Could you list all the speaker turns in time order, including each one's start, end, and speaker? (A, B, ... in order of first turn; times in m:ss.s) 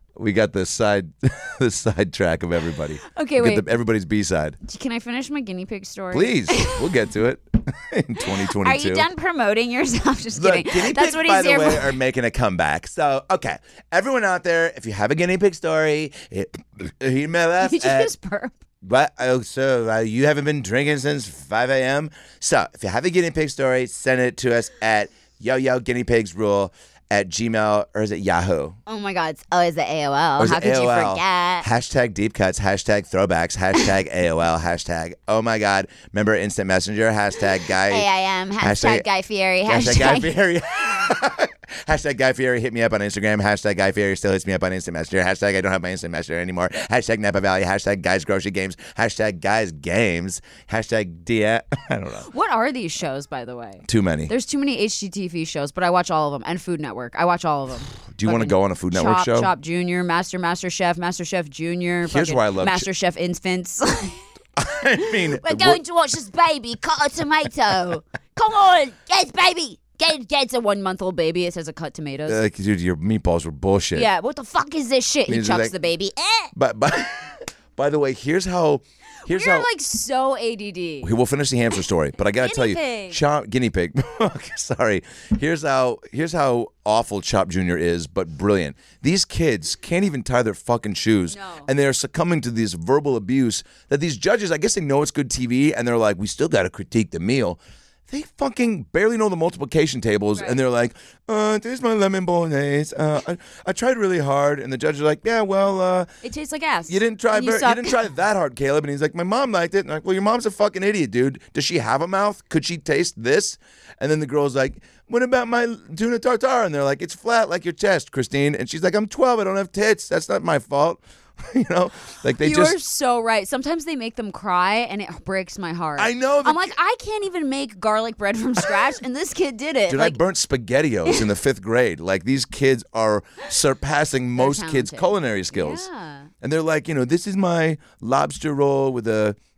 0:00.2-0:04.6 A
0:03.1-0:03.6 B
0:04.6-0:06.8 B
0:06.1-0:09.1 A
0:08.3-0:12.0 B
0:10.4-0:18.1 A
0:17.6-0:18.5 B
0:18.8-0:28.8 A
0:28.9-0:31.7 B
0:30.4-0:38.1 A
0:37.9-0:40.3 B
0:38.6-0:39.0 A
0:39.7-0:52.3 A
0:52.3-1:04.3 B
0:53.9-0:54.3 A
0:58.1-0:59.5 A
1:02.1-1:02.9 A
1:04.6-1:05.8 A
1:05.0-1:12.4 B
1:12.3-1:14.1 A
1:14.0-1:16.5 B
1:15.3-1:15.7 A
1:16.6-1:19.7 A
1:19.2-1:21.1 B
1:21.0-1:46.1 A
1:22.4-1:23.2 B
1:31.3-1:31.7 B
1:46.2-1:48.0 B
1:46.9-2:02.8 A
2:02.4-2:10.2 B
2:06.0-2:06.7 A
2:09.9-2:15.9 A
2:14.4-2:16.3 B
2:16.4-2:19.4 A